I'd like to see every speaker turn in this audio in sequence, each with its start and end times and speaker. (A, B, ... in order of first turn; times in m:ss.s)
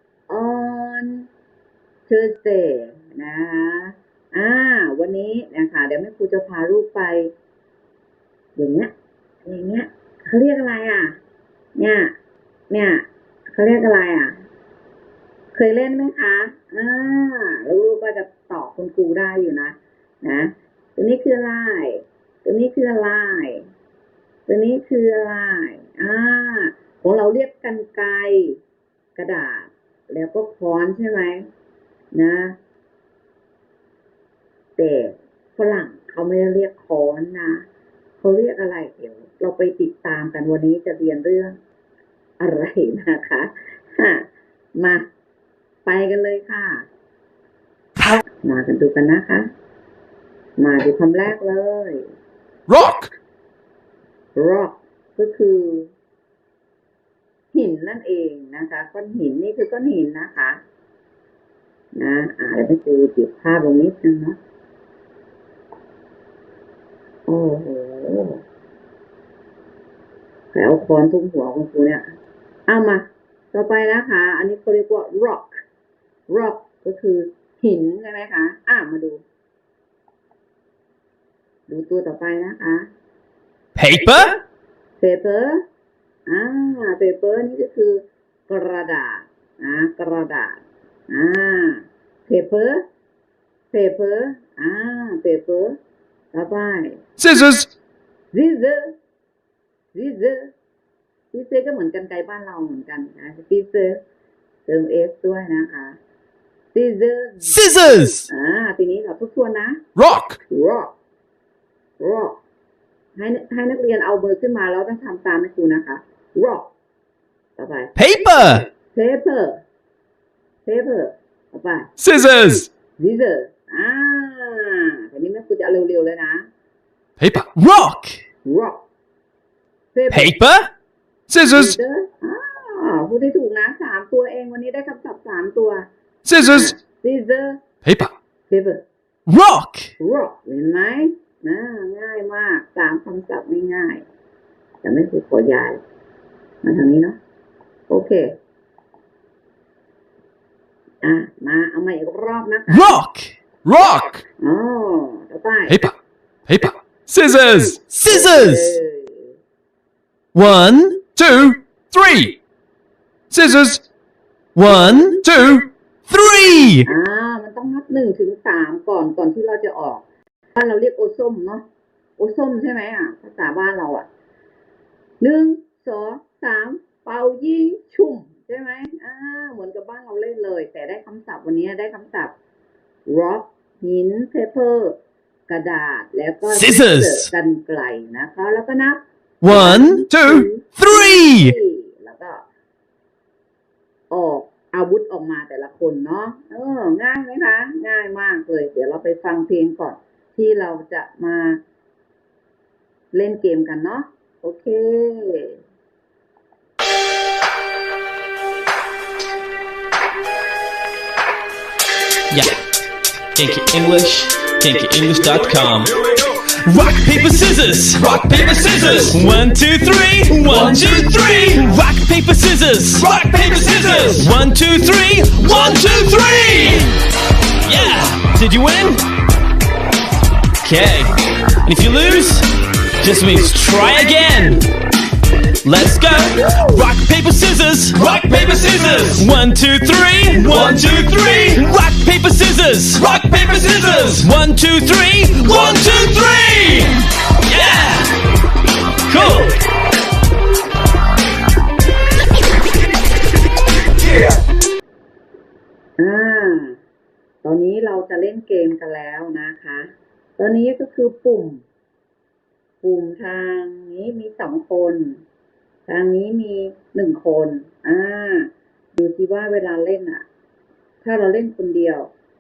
0:00.3-0:01.3 A
0:02.1-0:07.3 A
0:08.6-0:08.9 A
0:09.4-0:11.2 A
0:11.8-0:12.1 A
0:12.7-0:14.4 A
0:15.5-0:23.7 A
0:24.5-0:28.6 A
0:29.2-0:31.5 A
0:32.1-0:32.6 A
0:34.8-0:37.6 A
0:38.2-0:41.6 A
0:42.4-0:45.1 A
0:45.8-0:46.8 A
0:48.4-0:49.5 A
0:50.6-0:52.1 A
0:52.7-0:53.1 B
0:54.4-0:55.9 A
0:57.5-1:00.6 A
1:02.0-1:04.4 A
1:07.3-1:08.4 A
1:10.5-1:12.1 A
1:12.7-1:15.6 A
1:16.3-1:19.2 A
1:21.7-1:22.9 A
1:23.8-1:24.4 C
1:25.0-1:25.6 A
1:26.3-1:32.8 A
1:33.7-1:35.8 A
1:36.3-1:37.0 A
1:37.2-1:37.7 B
1:38.3-1:38.9 A
1:39.9-1:40.5 A
1:41.3-1:44.0 A
1:44.7-1:46.0 A
1:46.7-1:47.6 A
1:47.4-1:48.3 C
1:48.3-1:49.8 A
1:50.0-1:50.3 C
1:50.5-1:50.9 A
1:52.0-1:52.4 A
1:53.2-1:56.7 A
1:57.6-1:57.9 A
1:58.0-1:58.7 C
1:58.8-1:59.6 A
2:00.6-2:01.9 A
2:02.0-2:02.7 C
2:03.0-2:06.5 A
2:07.2-2:07.5 B
2:07.5-2:08.2 C
2:08.4-2:08.8 A
2:09.9-2:10.4 A
2:10.1-2:10.7 C
2:11.3-2:11.7 B
2:11.5-2:15.9 A
2:16.3-2:16.7 B
2:16.5-2:17.6 A
2:17.9-2:18.1 B
2:18.5-2:18.8 A
2:19.3-2:19.9 C
2:20.0-2:24.1 A
2:24.8-2:25.8 A
2:26.6-2:27.2 A
2:27.9-2:28.4 A
2:31.0-2:33.0 A
2:32.7-2:33.3 C
2:33.7-2:34.2 B
2:34.4-2:35.8 A
2:36.5-2:36.7 B
2:37.1-2:38.8 C
2:38.1-2:39.4 A
2:40.3-2:41.1 C
2:41.2-2:42.4 B
2:43.3-2:43.8 B
2:44.6-2:45.2 C
2:45.2-2:45.7 B
2:46.1-2:46.9 C
2:46.9-2:51.6 A
2:52.2-2:54.1 A
2:55.2-3:02.4 A
3:03.1-3:12.4 A
3:06.4-3:07.3 C
3:09.4-3:11.6 C
3:14.1-3:21.6 A
3:23.1-3:25.6 A
3:32.3-3:32.6 C
3:33.4-3:46.9 C
3:38.2-3:39.0 B
3:43.1-3:43.7 B
3:47.6-3:49.0 C
3:50.6-3:52.5 C
3:53.0-3:54.7 C
3:55.6-4:08.1 C
3:58.2-3:58.5 B
4:09.1-4:09.6 C
4:16.0-4:16.8 A
4:17.4-4:21.6 A
4:22.8-4:25.2 A
4:25.9-4:30.2 A
4:31.0-4:32.1 A